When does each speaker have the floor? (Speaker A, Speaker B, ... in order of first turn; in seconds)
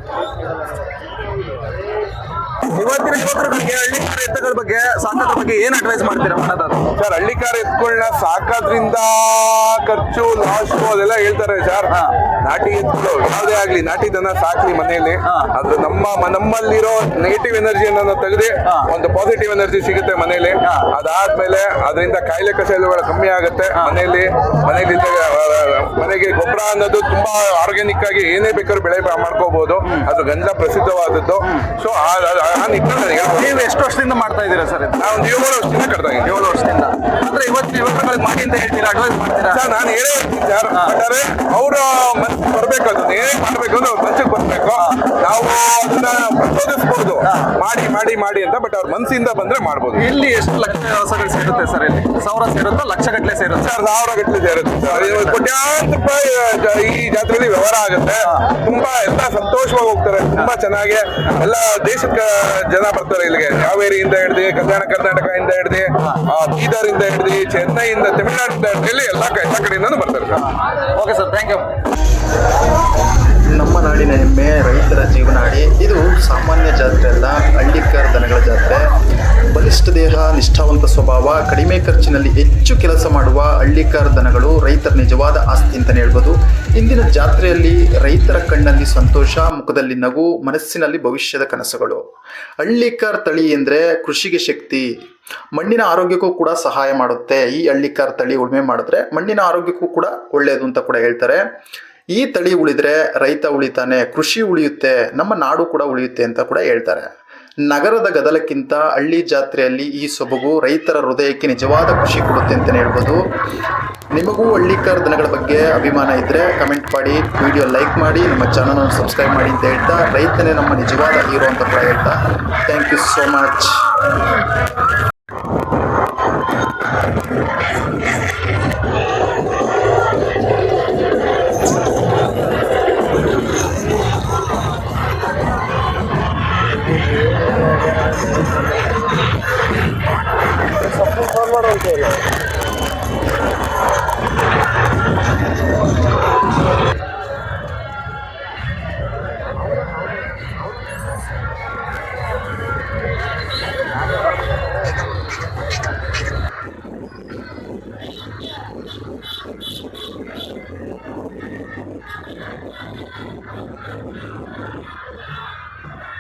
Speaker A: 2.6-6.9, 33.3-35.1, 36.2-39.6, 40.7-41.0, 44.8-45.0, 47.2-47.5, 50.0-53.7, 54.9-55.4, 70.3-71.7
Speaker B: 7.0-33.7, 35.0-36.5, 39.5-50.1, 53.6-70.4
Speaker C: 73.5-78.9, 79.5-92.0, 92.6-94.9, 95.5-101.4, 102.1-107.1, 107.7-113.2, 114.1-123.9